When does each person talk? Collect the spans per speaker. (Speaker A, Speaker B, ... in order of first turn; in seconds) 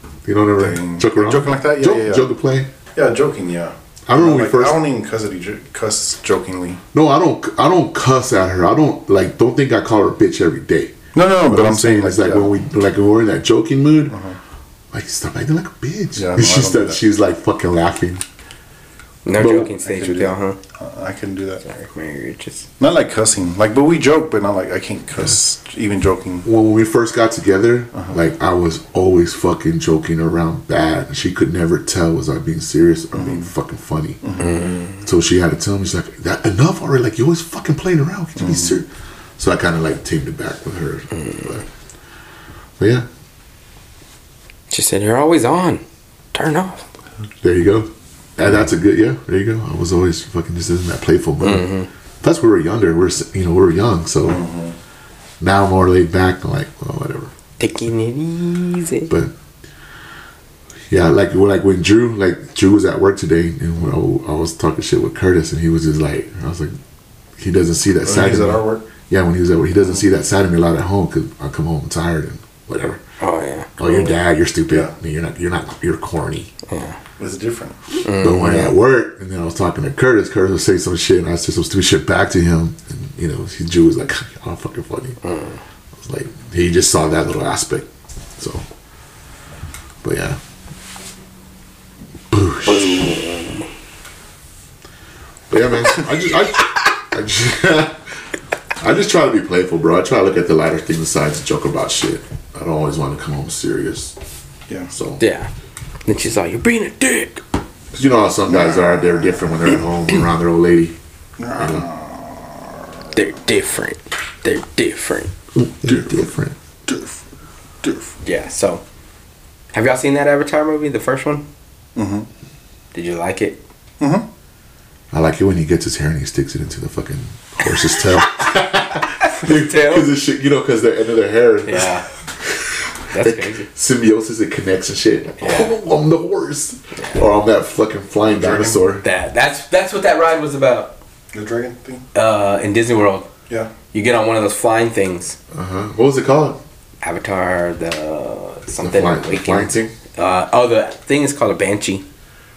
Speaker A: 0.2-2.7, 4.1-4.8, 6.9-14.2, 14.9-18.2, 19.3-19.7, 26.4-34.2, 35.0-38.9, 39.4-41.6, 42.8-43.1, 47.4-54.4, 55.4-57.3, 60.9-66.8, 67.4-73.0, 73.8-76.5, 78.1-85.2, 86.0-87.9, 88.4-88.7, 90.0-90.4, 92.3-93.1, 95.5-98.0, 98.8-104.2, 104.9-105.2, 107.9-111.0, 111.6-111.9, 115.5-116.6, 125.1-139.1, 145.5-146.6, 148.8-149.9
Speaker B: 0.6-2.3, 3.0-6.8, 11.1-12.5, 14.1-14.4, 16.2-17.0, 19.8-21.6, 22.8-26.5, 27.9-28.2, 33.1-33.5, 34.2-34.7, 38.4-38.8, 54.2-54.8, 68.0-68.9, 77.2-77.8, 104.7-104.9, 108.5-109.7, 111.4-113.2, 116.9-117.2, 117.8-118.1, 122.0-122.3, 124.0-124.3, 138.3-138.8, 141.3-142.1
Speaker C: 19.2-20.6, 21.6-22.7, 34.4-35.0, 41.2-41.5, 44.7-45.8, 46.3-46.8, 51.4-51.9, 57.6-59.1, 73.2-74.2, 76.7-77.0, 78.0-78.8, 85.2-85.6, 92.7-93.7, 105.2-105.5, 106.1-107.4, 113.2-115.3, 118.2-118.8, 119.7-121.5, 122.9-123.6, 129.2-130.1, 131.7-132.1, 133.1-133.7, 135.4-135.7, 139.0-140.9, 142.1-143.3, 143.9-145.4, 147.0-152.0